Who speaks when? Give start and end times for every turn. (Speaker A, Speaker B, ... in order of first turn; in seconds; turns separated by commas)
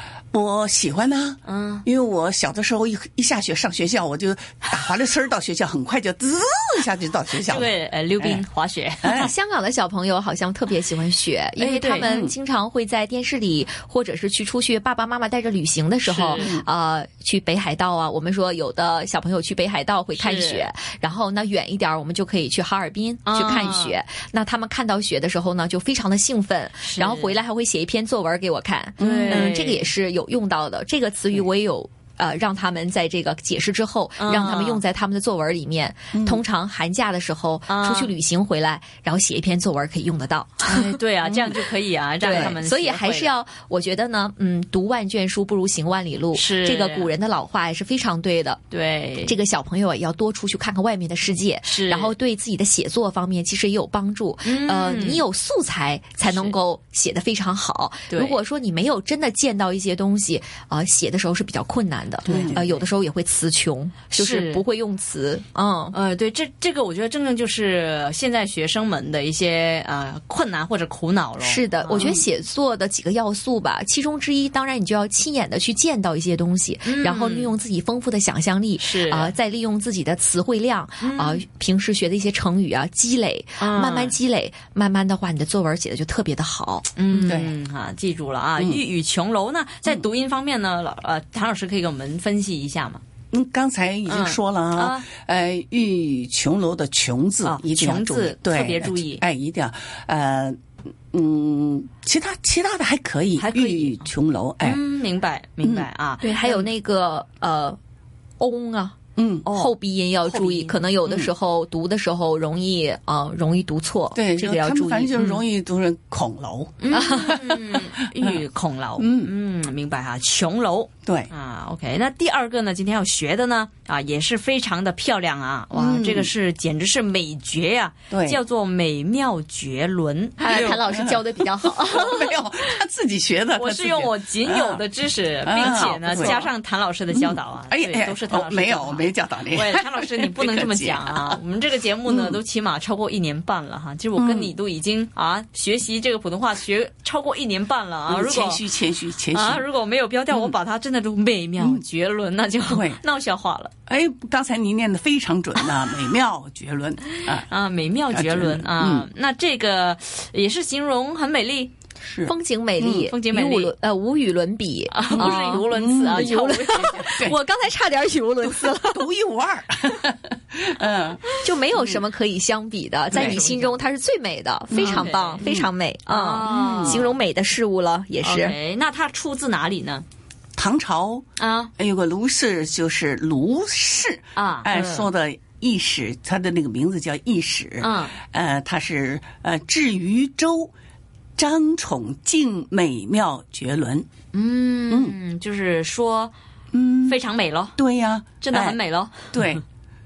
Speaker A: 0.3-8.4, Speaker B: 1.4-1.9, Speaker B: 7.4-9.3, Speaker A: 9.0-9.3, Speaker C: 9.2-41.3, Speaker B: 11.6-12.1, Speaker A: 12.0-12.3, Speaker B: 16.0-16.5, Speaker A: 16.4-16.6, Speaker B: 20.1-20.7, Speaker B: 23.3-23.9, Speaker B: 26.8-27.3, Speaker A: 29.0-29.7, Speaker B: 29.0-29.9, Speaker B: 34.2-34.8, Speaker A: 36.1-36.4, Speaker B: 37.7-38.1, Speaker B: 40.6-43.3, Speaker C: 42.2-48.6, Speaker B: 46.3-47.1, Speaker B: 48.7-49.4, Speaker C: 49.2-66.0, Speaker B: 51.7-52.1, Speaker B: 54.4-55.2, Speaker B: 56.2-56.5, Speaker B: 58.1-58.4, Speaker B: 62.2-62.8, Speaker A: 62.3-62.6, Speaker B: 64.1-64.6, Speaker B: 65.9-72.2, Speaker C: 71.4-87.3, Speaker A: 71.9-72.2, Speaker B: 76.8-77.5, Speaker B: 78.8-79.3, Speaker B: 81.0-81.4, Speaker B: 83.6-84.2, Speaker B: 87.0-93.0, Speaker A: 87.3-87.5, Speaker A: 93.3-100.6, Speaker B: 94.1-95.1, Speaker B: 97.4-99.2, Speaker A: 101.1-104.8, Speaker B: 103.4-104.1, Speaker B: 104.6-106.3, Speaker A: 105.6-105.9, Speaker C: 106.2-107.8, Speaker C: 108.4-115.2, Speaker A: 109.2-109.5, Speaker B: 109.4-109.7, Speaker B: 110.2-110.7, Speaker A: 111.0-111.3, Speaker A: 114.1-118.4, Speaker C: 116.8-117.6, Speaker B: 116.9-130.7, Speaker A: 119.0-119.3, Speaker A: 125.7-126.3, Speaker A: 128.1-128.4, Speaker C: 130.4-132.3, Speaker A: 130.4-134.8, Speaker B: 133.5-148.7, Speaker A: 135.4-136.4, Speaker C: 136.2-136.4, Speaker A: 137.1-141.4, Speaker A: 142.1-142.4, Speaker A: 144.1-144.5, Speaker A: 148.1-149.6, Speaker B: 149.3-153.7, Speaker A: 152.6-153.0, Speaker A: 153.9-157.5, Speaker B: 157.4-161.7, Speaker A: 158.1-159.1, Speaker A: 162.0-163.1, Speaker C: 162.2-169.1, Speaker B: 162.9-163.7, Speaker B: 164.9-167.2, Speaker A: 165.1-167.4, Speaker A: 168.4-172.0, Speaker C: 171.4-178.6, Speaker A: 173.1-173.4, Speaker B: 173.1-173.8, Speaker B: 174.7-175.4, Speaker A: 174.8-175.7, Speaker B: 176.1-177.1, Speaker A: 176.4-177.0, Speaker B: 178.2-180.0, Speaker A: 180.6-181.2, Speaker B: 181.4-181.7, Speaker A: 181.8-190.7, Speaker B: 184.3-185.1, Speaker B: 187.8-188.1, Speaker A: 191.4-194.1, Speaker B: 194.3-196.3, Speaker A: 194.9-195.2, Speaker A: 196.7-197.2, Speaker B: 197.1-197.8, Speaker A: 197.8-198.8, Speaker B: 198.4-199.3, Speaker A: 199.3-199.6